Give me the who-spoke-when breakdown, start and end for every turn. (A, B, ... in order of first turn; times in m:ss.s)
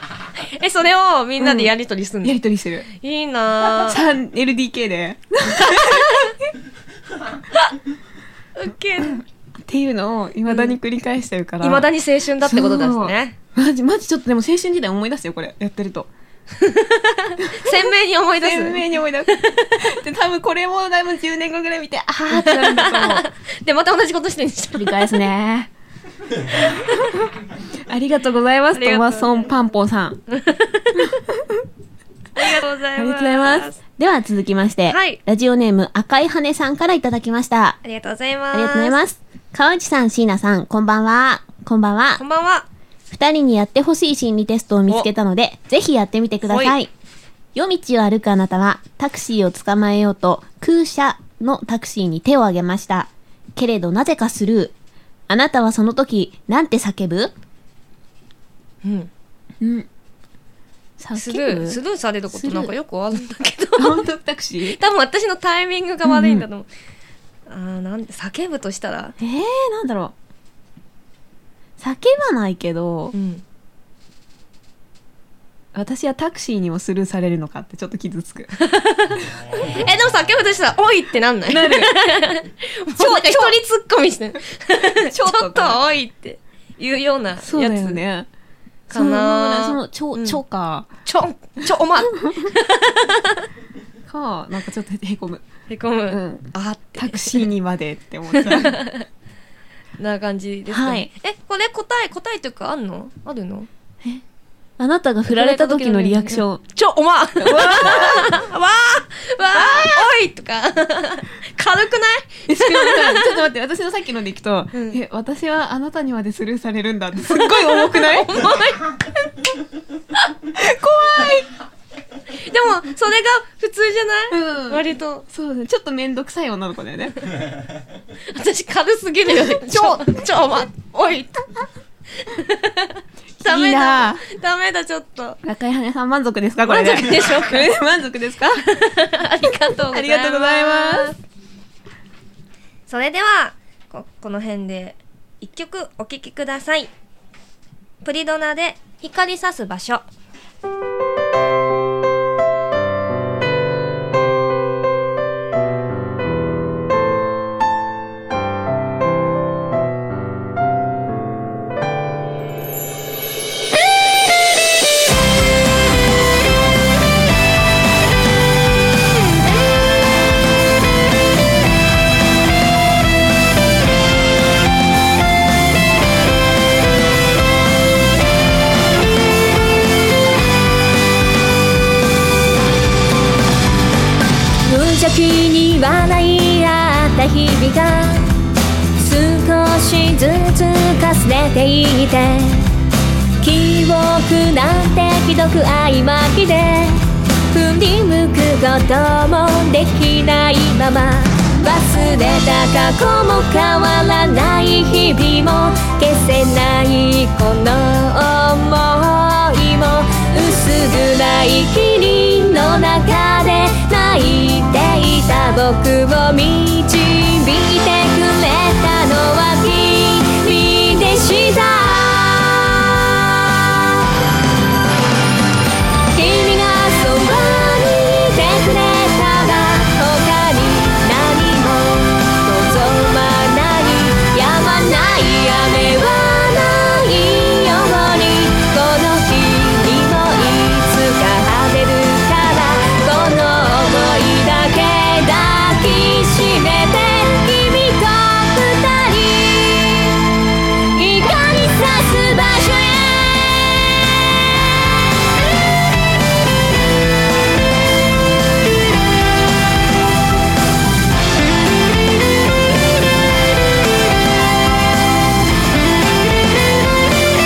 0:00.4-0:04.0 A
0:01.4-0:01.7 B
0:02.2-0:02.9 B
0:03.6-0:06.5 B
0:05.6-0:06.3 A
0:08.6-0:09.2 A
0:09.0-0:11.9 B
0:10.5-0:10.8 A
0:11.6-0:13.4 A
0:12.4-0:16.1 B
0:16.6-0:19.8 A
0:17.5-0:17.8 B
0:18.4-0:23.2 B
0:22.3-0:25.1 A
0:24.7-0:25.7 B
0:26.7-0:27.3 B
0:27.9-0:30.2 B
0:28.7-0:29.5 A
0:30.3-0:31.2 A
0:31.0-0:31.6 B
0:32.4-0:33.8 A
0:33.0-0:37.8 B
0:34.9-0:35.2 A
0:37.8-0:39.0 A
0:38.5-0:42.2 B
0:42.2-0:42.7 A
0:43.1-0:46.9 B
0:46.5-0:46.8 A
0:47.6-0:54.7 B
0:55.3-0:57.3 B
0:58.8-0:59.1 A
0:59.6-0:59.9 B
1:01.0-1:02.7 B
1:01.2-1:04.0 A
1:03.8-1:04.8 B
1:04.6-1:06.7 A
1:06.0-1:06.5 B
1:07.5-1:09.2 A
1:09.2-1:10.1 B
1:11.8-1:13.1 B
1:13.1-1:13.4 A
1:15.7-1:18.5 B
1:18.6-1:28.0 A
1:21.5-1:21.9 B
1:23.0-1:23.6 B
1:25.1-1:25.8 B
1:27.4-1:28.3 B
1:28.9-1:30.9 B
1:28.9-1:30.4 A
1:31.0-1:33.5 A
1:32.2-1:32.5 B
1:34.1-1:35.4 B
1:35.7-1:37.5 A
1:36.1-1:38.8 B
1:38.3-1:39.1 A
1:40.0-1:43.7 A
1:40.7-1:41.1 B
1:44.8-1:46.6 B
1:45.3-1:53.5 A
1:47.4-1:48.4 B
1:49.5-1:50.1 B
1:52.5-1:58.4 B
1:54.7-1:55.0 A
1:57.2-1:59.0 A
2:00.5-2:01.5 B
2:02.4-2:05.2 A
2:04.3-2:07.2 B
2:08.3-2:11.6 A
2:09.3-2:10.2 B
2:12.2-2:15.4 A
2:13.4-2:14.2 B
2:15.4-2:18.6 B
2:16.6-2:17.7 A
2:18.6-2:21.2 A
2:19.4-2:21.1 B
2:22.9-2:26.9 A
2:28.0-2:30.1 A
3:04.6-3:08.4 C
3:09.0-3:12.8 C
3:13.4-3:43.9 C
3:46.1-4:10.2 C
4:11.0-4:13.9 C